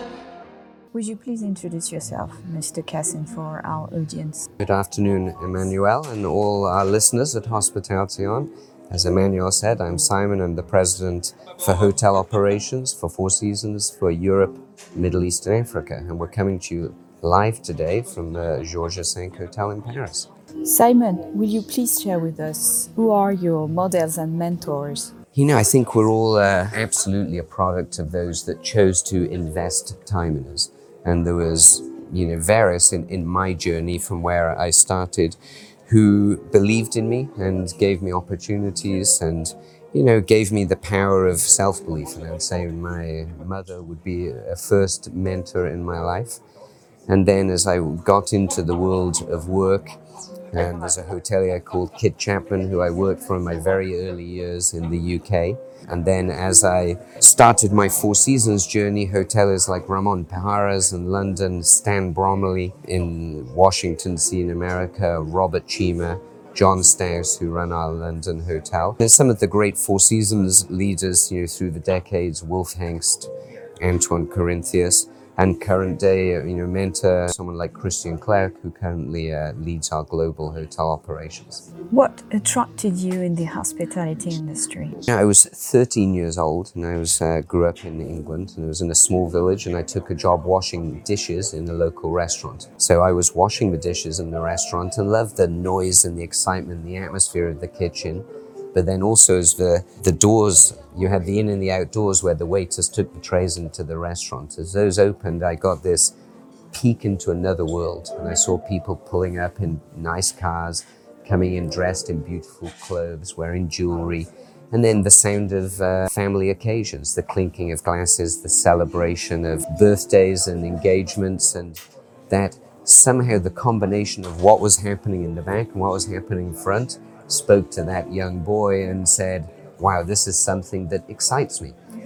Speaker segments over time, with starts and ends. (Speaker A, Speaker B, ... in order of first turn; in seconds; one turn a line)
Speaker A: 0.9-4.5
Speaker B: 4.6-20.3
Speaker A: 20.6-25.1
Speaker B: 25.3-35.4
Speaker B: 35.9-46.4
Speaker B: 47.1-49.9
Speaker B: 50.5-81.7
Speaker A: 81.9-85.0
Speaker B: 85.0-106.1
Speaker B: 106.7-131.8